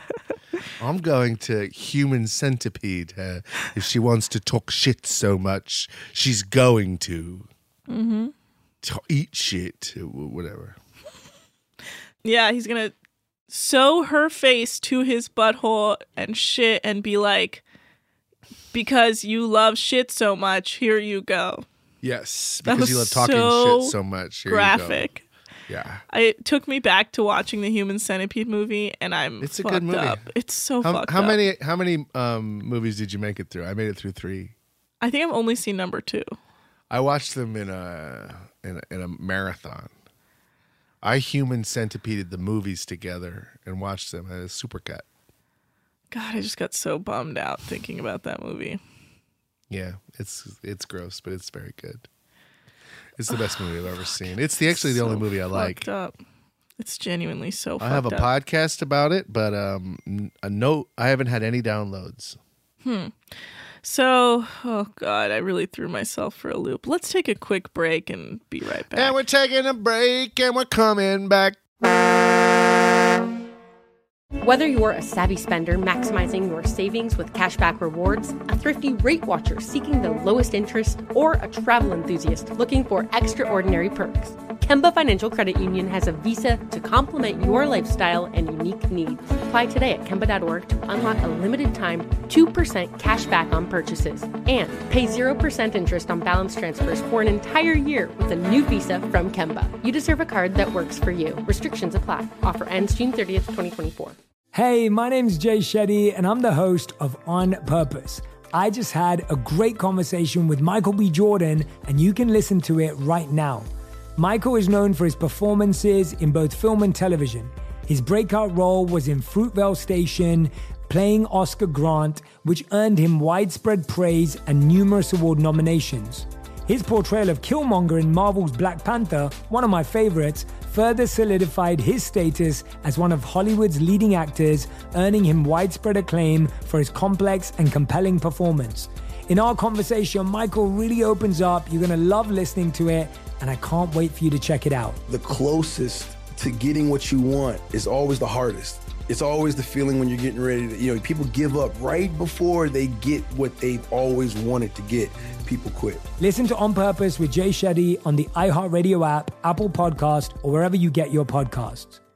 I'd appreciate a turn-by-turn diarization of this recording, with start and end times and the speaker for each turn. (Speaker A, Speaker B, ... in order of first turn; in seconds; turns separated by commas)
Speaker A: 0.8-7.5, Speaker B: 7.9-8.3, Speaker A: 8.8-10.8, Speaker B: 12.2-12.9, Speaker B: 13.5-17.6, Speaker B: 18.7-21.6, Speaker A: 22.0-25.1, Speaker B: 22.6-23.9, Speaker B: 24.4-25.2, Speaker A: 25.7-26.0, Speaker B: 26.1-31.4, Speaker A: 29.4-30.2, Speaker A: 30.8-34.5, Speaker B: 35.0-36.4, Speaker A: 36.9-39.9, Speaker A: 41.0-45.0, Speaker B: 46.1-48.8, Speaker A: 49.7-52.1, Speaker A: 53.2-55.9, Speaker B: 53.3-56.1, Speaker B: 56.8-58.3, Speaker A: 57.8-62.4, Speaker B: 62.8-63.1, Speaker B: 63.8-69.2, Speaker A: 68.9-71.6, Speaker C: 74.4-104.2, Speaker D: 104.5-145.0, Speaker E: 145.1-156.0, Speaker D: 156.2-162.0